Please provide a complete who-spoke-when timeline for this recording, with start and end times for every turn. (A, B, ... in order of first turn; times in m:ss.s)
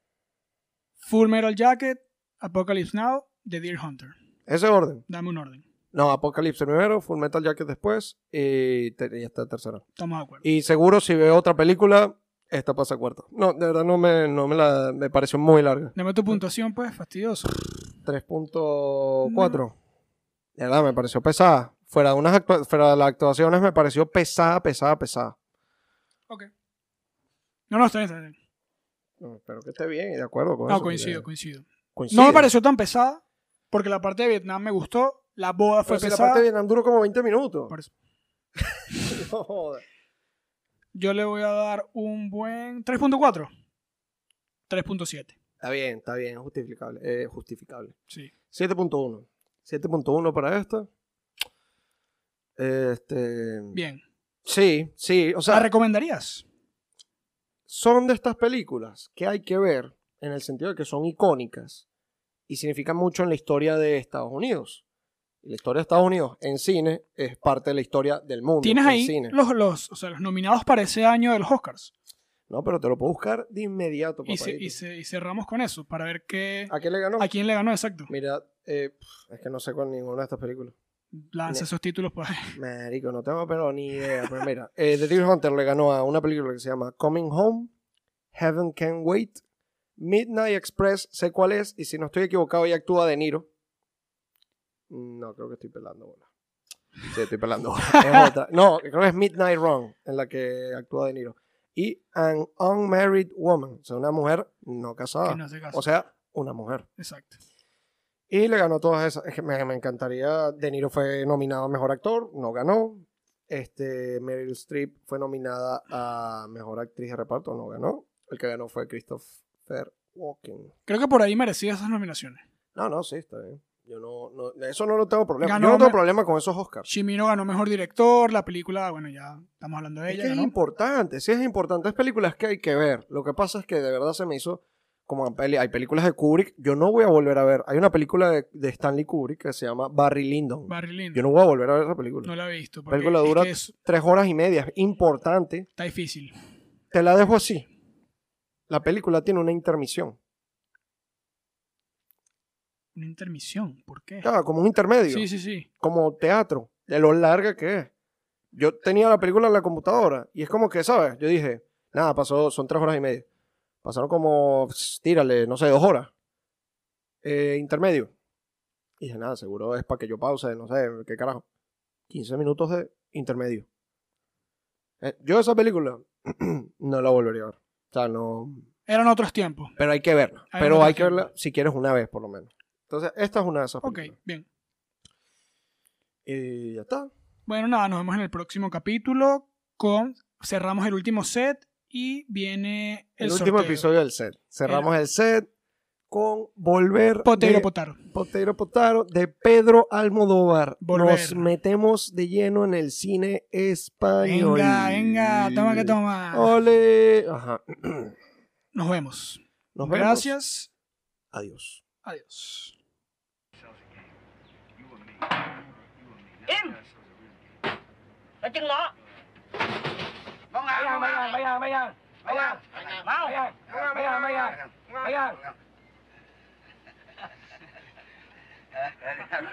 0:01.0-0:04.2 A
0:04.5-0:05.0 B
0:05.1-0:05.6 A
0:05.9-0:09.8 B
0:10.0-0:10.4 A
0:10.4-0:16.0 B
0:16.0-0:17.5 A
0:18.0-0:19.7 B
0:19.3-0:19.6 A
0:20.6-0:25.3 B
0:27.7-0:28.4 A
0:29.2-0:31.2 B
0:30.7-0:36.4 A
0:31.9-0:32.5 B
0:35.9-0:37.7 B
0:38.6-0:39.8 B
0:40.9-0:43.5 A
0:44.7-0:45.3 A
0:45.6-0:47.9 B
0:48.5-0:50.9 B
0:52.6-0:53.8 B
0:53.7-0:54.0 A
0:54.4-0:55.7 B
0:55.5-0:56.4 A
0:57.7-1:01.8 B
1:02.5-1:04.8 B
1:05.4-1:09.4 B
1:08.6-1:11.9 A
1:12.5-1:14.8 B
1:14.2-1:18.1 A
1:16.7-1:17.3 B
1:18.1-1:20.7 B
1:21.2-1:22.6 A
1:22.5-1:27.7 B
1:24.0-1:24.4 A
1:28.3-1:29.4 B
1:30.0-1:33.5 B
1:34.9-1:36.2 B
1:37.1-1:46.8 B
1:45.2-1:45.8 A
1:47.0-1:47.4 A
1:48.3-2:00.7 B
2:00.9-2:02.4 A
2:02.7-2:06.9 B
2:05.4-2:06.0 A
2:06.9-2:10.5 A
2:10.1-2:22.3 B
2:20.7-2:21.2 A
2:22.2-2:23.7 A
2:22.9-2:25.7 B
2:25.8-2:26.3 A
2:26.9-2:27.7 B
2:28.7-2:30.2 B
2:32.9-2:34.3 A
2:34.2-2:35.3 B
2:35.1-2:35.7 A
2:35.8-2:37.9 B
2:38.5-2:43.2 B
2:43.8-2:46.1 B
2:47.2-2:48.1 B
2:49.0-2:51.4 B
2:52.1-2:53.6 B
2:55.0-2:58.7 B
2:58.9-2:59.7 A
2:59.8-3:04.1 B
3:00.5-3:01.3 A
3:03.8-3:04.4 A
3:06.2-3:07.1 B
3:07.4-3:13.8 A
3:13.2-3:15.5 B
3:16.1-3:28.1 B
3:17.2-3:18.0 A
3:20.8-3:21.5 A
3:24.2-3:26.5 A
3:28.7-3:30.7 A
3:29.7-3:30.3 B
3:31.3-3:31.8 B
3:32.0-3:32.7 A
3:36.5-3:36.8 C
3:38.4-3:38.9 C
3:40.5-3:45.5 C